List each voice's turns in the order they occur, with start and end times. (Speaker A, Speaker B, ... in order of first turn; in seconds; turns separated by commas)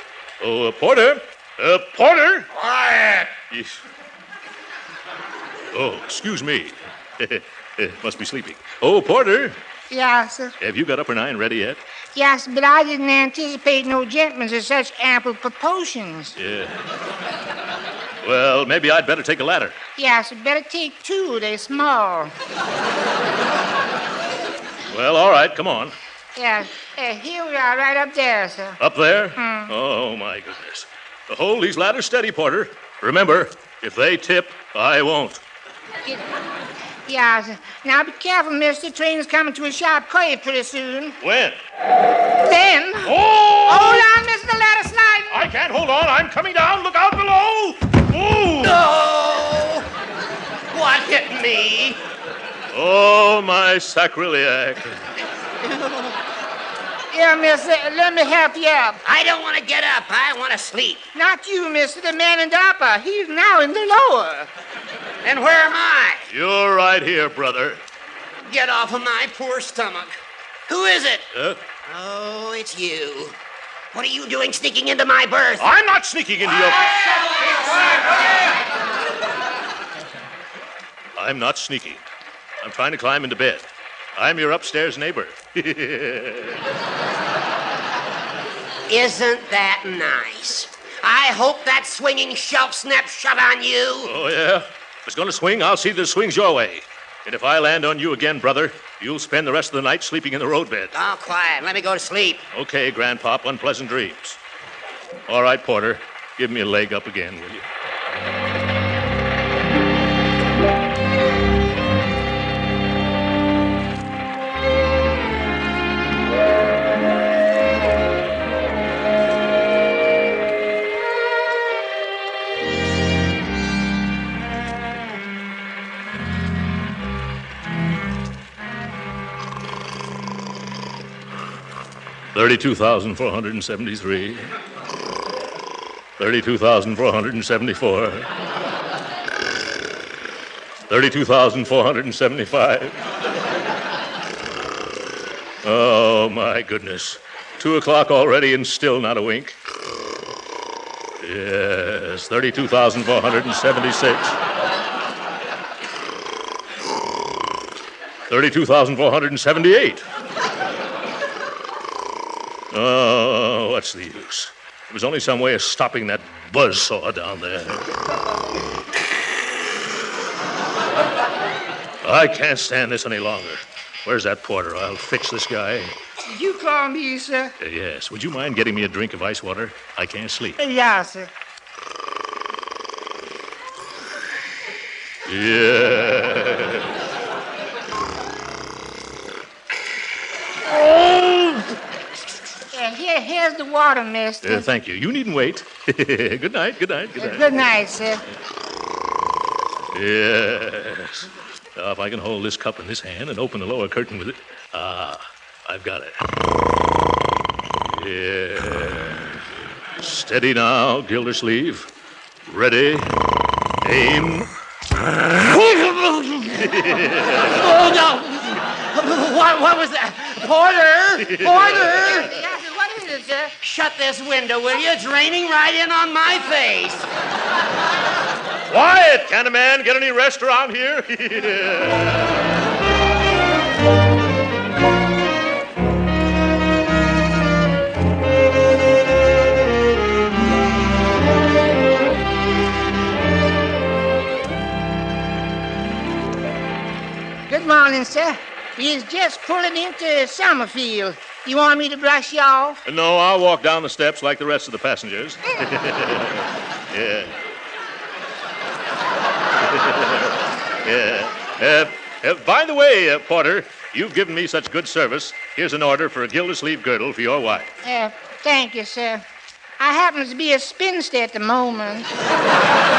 Speaker A: 0.4-2.5, Speaker B: 2.7-3.1, Speaker A: 3.5-3.8, Speaker A: 5.7-9.6, Speaker C: 9.9-10.6, Speaker A: 10.6-11.8, Speaker C: 12.2-16.3, Speaker A: 16.4-16.8, Speaker A: 18.2-19.8, Speaker C: 20.0-22.3, Speaker A: 24.9-25.9, Speaker C: 26.4-28.8, Speaker A: 28.8-35.4, Speaker C: 29.4-29.7, Speaker C: 37.1-41.2, Speaker A: 41.2-41.6, Speaker C: 42.5-43.1, Speaker A: 43.0-44.0, Speaker C: 43.7-45.4, Speaker A: 45.3-48.8, Speaker B: 48.6-49.9, Speaker B: 50.7-52.0, Speaker A: 52.7-55.0, Speaker C: 57.1-59.0, Speaker B: 59.0-61.1, Speaker C: 61.1-64.5, Speaker B: 65.2-66.2, Speaker A: 66.3-67.8, Speaker B: 68.5-70.1, Speaker B: 70.7-71.3, Speaker A: 71.3-71.6, Speaker B: 71.9-73.4, Speaker B: 73.9-75.7, Speaker A: 75.6-77.1, Speaker A: 81.2-82.0, Speaker A: 82.6-86.6, Speaker B: 88.9-94.1, Speaker A: 94.0-100.9, Speaker B: 100.9-102.5, Speaker A: 102.5-104.4, Speaker A: 105.3-107.7, Speaker A: 132.3-134.5, Speaker A: 136.2-138.3, Speaker A: 140.9-143.0, Speaker A: 145.6-149.6, Speaker A: 151.2-154.4, Speaker A: 158.3-160.1, Speaker A: 162.7-167.9, Speaker A: 172.0-175.9, Speaker C: 176.3-177.5, Speaker A: 177.6-180.6, Speaker C: 180.6-181.3, Speaker A: 185.3-186.9, Speaker C: 192.7-194.7, Speaker A: 194.4-197.5, Speaker C: 197.2-198.2, Speaker A: 199.9-206.2, Speaker A: 207.9-209.4, Speaker A: 210.0-211.9, Speaker A: 212.5-213.2, Speaker A: 213.8-214.5, Speaker A: 216.5-217.5, Speaker B: 217.4-222.3, Speaker A: 221.3-221.7, Speaker C: 222.2-223.5, Speaker B: 223.6-227.1, Speaker A: 228.7-232.3, Speaker C: 247.5-252.8, Speaker A: 252.9-257.3, Speaker A: 259.7-267.7, Speaker C: 267.8-269.2, Speaker C: 269.8-272.1